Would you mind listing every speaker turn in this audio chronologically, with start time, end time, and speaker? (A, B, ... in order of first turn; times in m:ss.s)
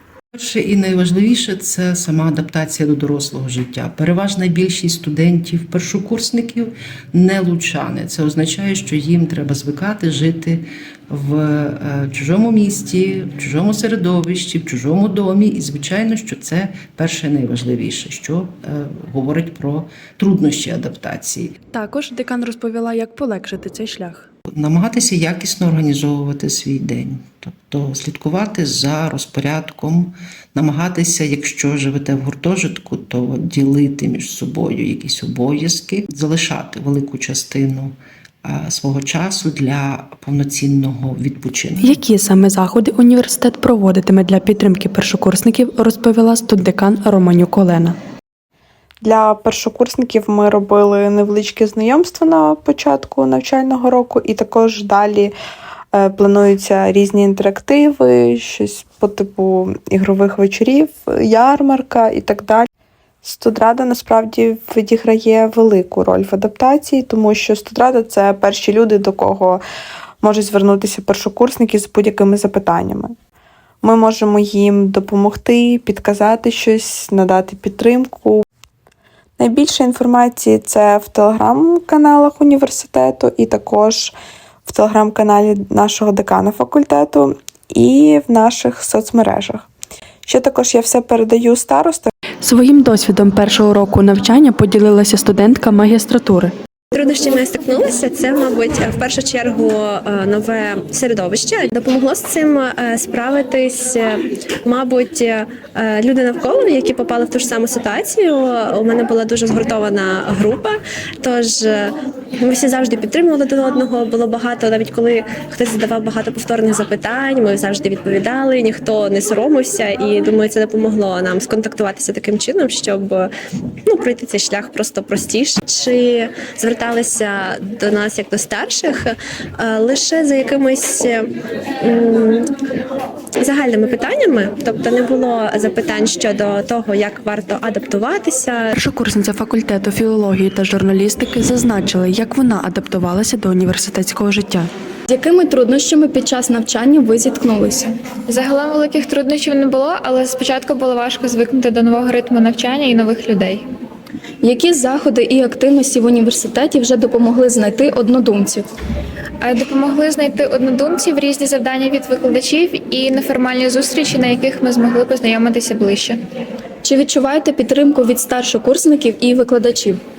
0:00.3-0:21.6 A
0:21.7-0:24.3 B
0:24.6-0:42.0 A
0:41.8-0:47.9 B
0:49.0-0:55.3 C
0:55.9-1:02.7 C
1:03.2-1:09.6 C
1:10.2-1:13.1 C
1:13.8-1:18.4 C
1:19.4-1:24.1 C
1:24.6-1:29.7 C
1:30.2-1:32.1 C
1:32.4-1:36.5 B
1:36.9-2:03.3 D
2:03.8-2:11.2 D
2:11.8-2:12.5 D
2:13.4-2:18.6 D
2:18.7-2:24.7 B
2:25.1-2:27.9 E
2:28.3-2:33.6 F
2:34.4-2:38.7 E
2:39.4-2:46.2 F
2:46.8-2:50.0 E